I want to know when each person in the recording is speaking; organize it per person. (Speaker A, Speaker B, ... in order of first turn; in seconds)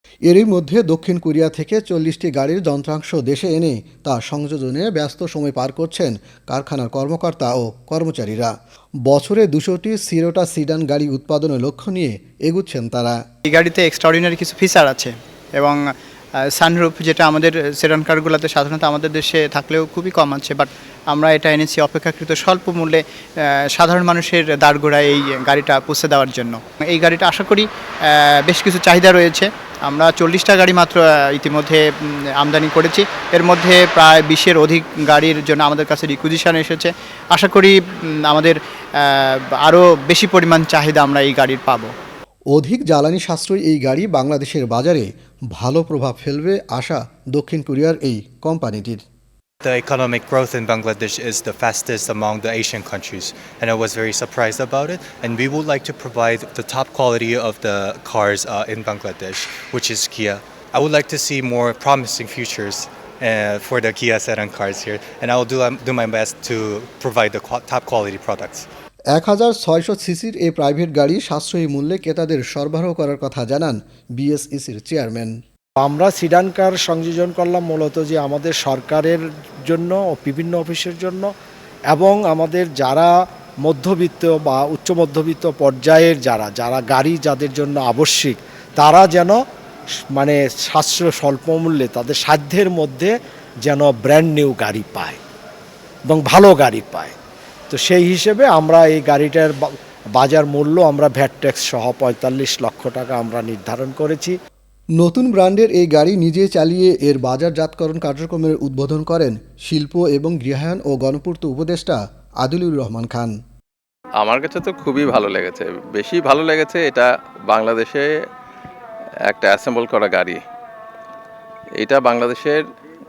Speaker A: 0.2-8.5, 9.1-13.2, 42.5-49.0, 69.1-75.3, 105.0-113.3
Speaker B: 13.4-15.8, 16.4-41.9
Speaker C: 49.6-68.7
Speaker D: 75.8-81.3, 81.9-83.1, 83.6-89.4, 90.1-93.1, 93.6-95.2, 96.0-97.1, 97.7-104.3
Speaker E: 114.2-118.1, 119.3-120.4, 121.8-122.6